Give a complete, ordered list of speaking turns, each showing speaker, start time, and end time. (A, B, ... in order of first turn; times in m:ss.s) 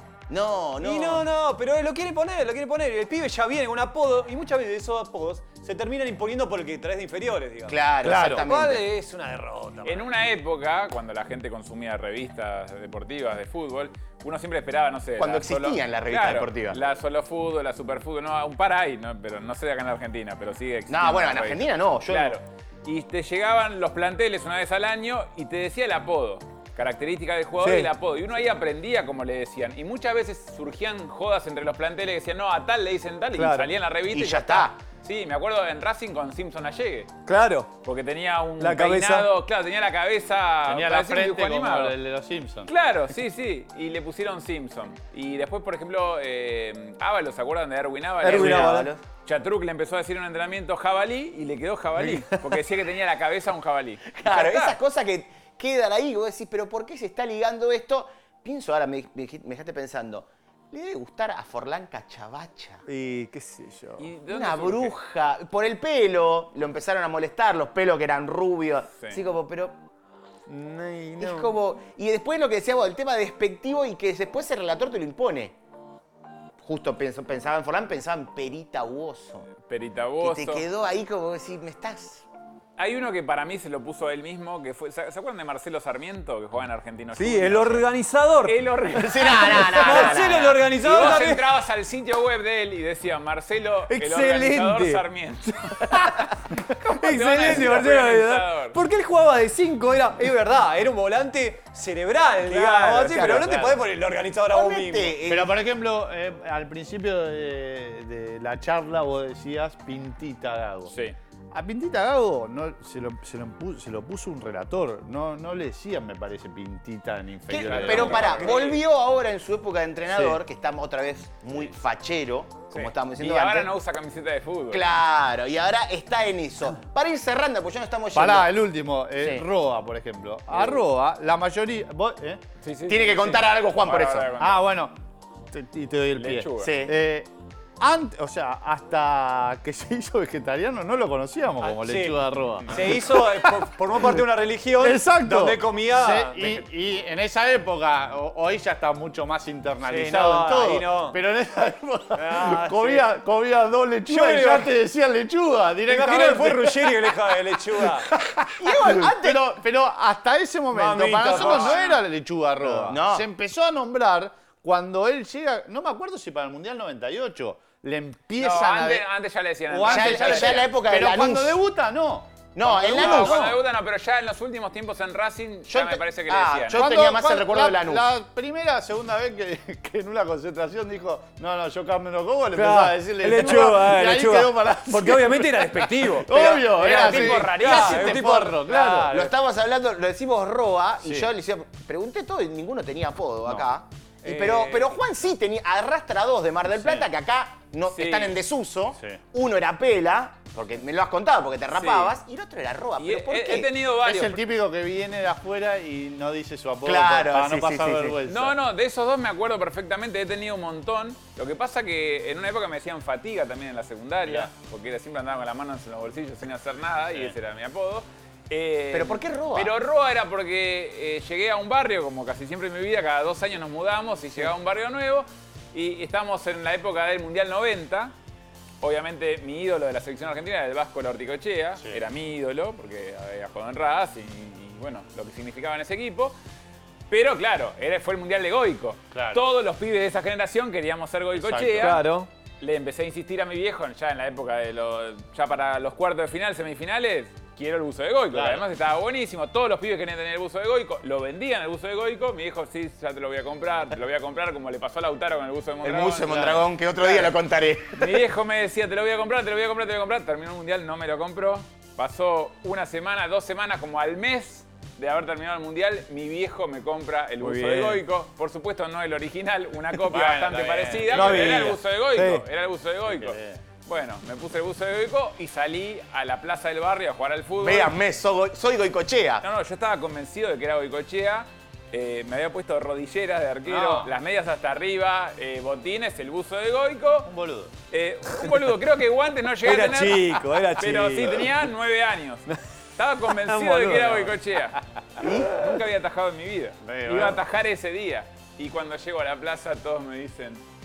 0:00.3-0:01.2 A
0:00.8-0:10.1 B
0:07.7-0:08.8 A
0:08.0-0:08.5 C
0:09.8-0:37.1 D
0:15.2-0:16.8 A
0:20.9-0:22.4 A
0:27.6-0:27.9 B
0:33.3-0:33.7 B
0:34.1-0:34.8 A
0:37.2-0:37.7 B
0:37.8-0:41.9 D
0:38.6-0:39.3 B
0:40.7-0:42.7 C
0:42.7-0:54.8 D
0:48.2-0:48.9 B
0:48.2-0:49.0 A
0:54.1-1:02.8 A
1:02.9-1:04.1 B
1:04.0-1:05.0 D
1:04.3-1:09.8 A
1:10.5-1:11.6 B
1:11.2-1:15.6 A
1:16.6-1:19.5 A
1:19.6-1:20.6 D
1:20.2-1:22.2 A
1:22.8-1:27.9 D
1:27.1-1:28.6 B
1:28.4-1:36.3 D
1:28.9-1:30.6 A
1:29.2-1:31.4 B
1:33.9-1:45.2 B
1:36.8-1:38.8 D
1:42.5-1:43.6 A
1:42.8-1:43.8 C
1:44.5-1:45.6 A
1:45.2-1:50.9 C
1:50.9-1:51.2 D
1:51.5-1:58.5 C
1:57.5-2:03.7 A
1:57.6-1:58.8 D
2:00.1-2:00.4 C
2:02.7-2:04.9 D
2:04.7-2:08.5 A
2:08.1-2:12.4 C
2:09.2-2:09.4 A
2:12.6-2:14.6 D
2:12.9-2:14.3 A
2:14.4-2:15.0 C
2:15.5-2:24.2 C
2:16.1-2:16.7 D
2:16.6-2:17.0 A
2:21.6-2:26.4 B
2:24.8-2:49.1 C
2:26.4-2:26.6 D
2:29.8-2:31.2 B
2:32.1-2:33.0 B
2:34.1-2:34.7 B
2:35.9-2:38.1 B
2:38.6-2:39.6 A
2:40.7-2:41.8 B
2:41.3-2:42.0 A
2:42.6-2:43.2 A
2:48.4-2:50.7 D
2:49.7-2:53.6 C
2:49.9-2:51.6 A
2:52.5-2:53.6 A
2:52.9-2:56.9 D
2:55.7-2:58.0 A
2:56.7-3:09.3 C
3:02.5-3:06.3 B
3:06.2-3:23.7 A
3:06.3-3:08.2 D
3:06.9-3:09.3 B
3:11.0-3:11.3 C
3:14.2-3:15.0 B
3:16.7-3:17.1 C
3:17.9-3:18.4 D
3:21.7-3:22.1 D
3:23.0-3:24.4 D
3:24.0-3:28.6 C
3:26.8-3:28.2 A
3:28.2-3:48.1 D
3:38.9-3:39.8 A
3:48.8-3:56.4 D
3:57.1-4:02.0 D
3:59.1-3:59.4 C
4:01.4-4:02.0 C
4:01.8-4:02.3 B
4:02.6-4:17.3 D
4:08.3-4:08.6 C
4:15.8-4:18.2 A
4:16.3-4:16.6 C
4:17.9-4:37.9 D
4:27.4-4:28.0 B
4:30.0-4:31.7 C
4:31.1-4:32.4 B
4:33.1-4:33.6 C
4:37.6-4:39.4 A
4:39.4-4:47.3 D
4:43.6-4:44.1 C
4:47.2-4:47.7 C
4:47.9-5:00.6 D
4:49.6-4:51.5 B
4:53.4-4:54.4 B
4:55.2-4:55.5 A
4:56.8-4:57.4 C